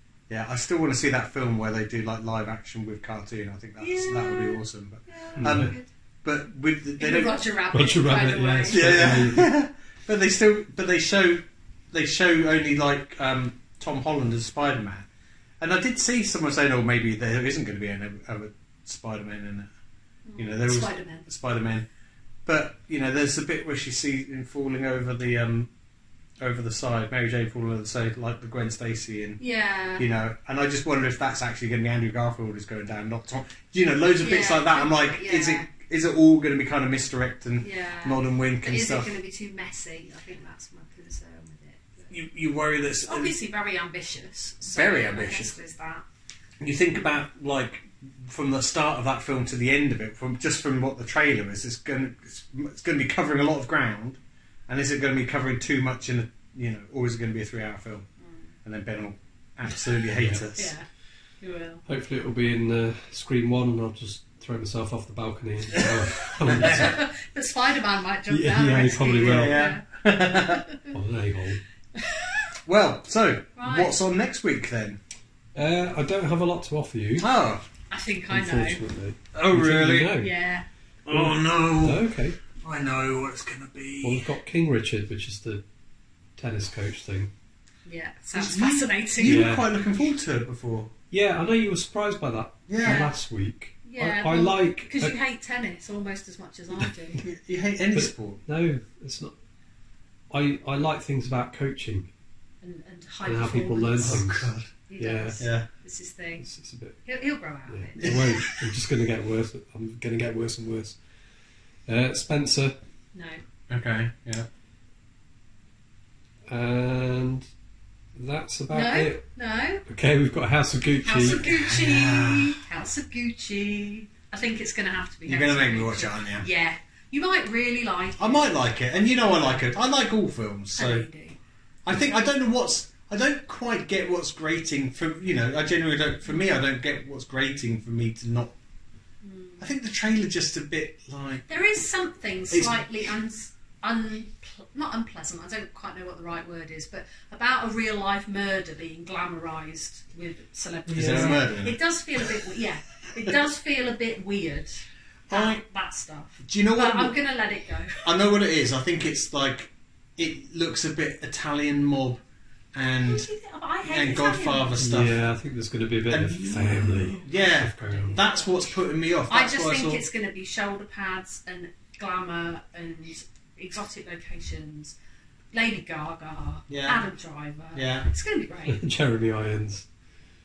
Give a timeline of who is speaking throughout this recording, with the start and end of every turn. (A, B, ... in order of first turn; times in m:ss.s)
0:00.3-0:07.4 A
0:03.8-0:05.9 B
0:05.4-0:05.7 C
0:07.0-0:09.2 B
0:07.7-0:09.5 C
0:08.7-0:15.1 A
0:15.6-0:19.7 A
0:20.3-0:21.3 B
0:20.4-0:21.9 A
0:22.5-0:25.7 A
0:26.4-0:29.4 A
0:29.4-0:30.1 B
0:30.0-0:39.1 A
0:34.2-0:35.7 B
0:37.6-0:42.1 B
0:42.1-0:43.4 A
0:43.1-0:46.0 B
0:44.7-0:45.5 A
0:46.6-0:58.0 A
0:58.2-0:58.5 B
0:58.6-1:00.7 A
1:00.2-1:00.5 C
1:00.6-1:00.8 B
1:01.4-1:01.8 B
1:01.9-1:07.0 C
1:05.7-1:07.0 A
1:06.5-1:10.9 B
1:08.3-1:09.7 C
1:09.2-1:10.6 A
1:10.9-1:11.6 C
1:12.0-1:12.5 B
1:12.7-1:15.0 A
1:13.6-1:14.0 B
1:15.6-1:17.3 C
1:17.2-1:17.6 A
1:17.9-1:18.8 B
1:18.3-1:20.3 C
1:19.3-1:20.1 A
1:20.2-1:20.6 B
1:21.0-1:24.3 A
1:21.1-1:22.4 C
1:24.0-1:25.6 C
1:26.4-1:27.3 C
1:27.8-1:29.5 B
1:28.4-1:30.9 A
1:29.2-1:29.7 C
1:31.1-1:35.2 C
1:32.7-1:33.1 A
1:32.8-1:33.2 B
1:33.8-1:37.2 B
1:37.2-1:38.4 A
1:37.9-1:39.4 C
1:40.3-1:42.1 C
1:42.6-1:44.3 B
1:43.2-1:45.4 C
1:44.0-1:44.7 A
1:44.9-1:46.5 B
1:45.4-1:45.7 A
1:46.4-1:47.0 C
1:47.1-1:48.2 B
1:47.7-1:51.0 C
1:48.0-1:48.5 A
1:51.9-1:52.8 C
1:53.1-1:53.4 B
1:53.7-1:54.5 A
1:56.5-1:57.5 C
1:58.2-1:59.2 C
1:58.7-1:59.8 B
1:59.9-2:01.4 C
2:01.0-2:09.6 B
2:01.3-2:02.6 A
2:05.3-2:06.5 A
2:08.2-2:11.1 A
2:10.8-2:11.4 B
2:11.8-2:18.6 A
2:19.2-2:19.7 B
2:19.6-2:21.4 A
2:21.5-2:38.1 B
2:22.5-2:22.8 A
2:30.9-2:31.4 C
2:30.9-2:32.4 A
2:35.3-2:35.6 A
2:36.4-2:37.2 A
2:38.0-2:42.2 A
2:42.7-2:43.3 A
2:43.0-2:44.8 B
2:43.9-2:45.2 A
2:44.8-2:48.2 C
2:46.1-2:50.0 A
2:47.2-2:48.8 B
2:49.3-2:55.0 B
2:55.5-2:58.8 B
2:56.7-2:57.0 A
2:57.7-2:58.1 A
2:58.7-2:59.9 C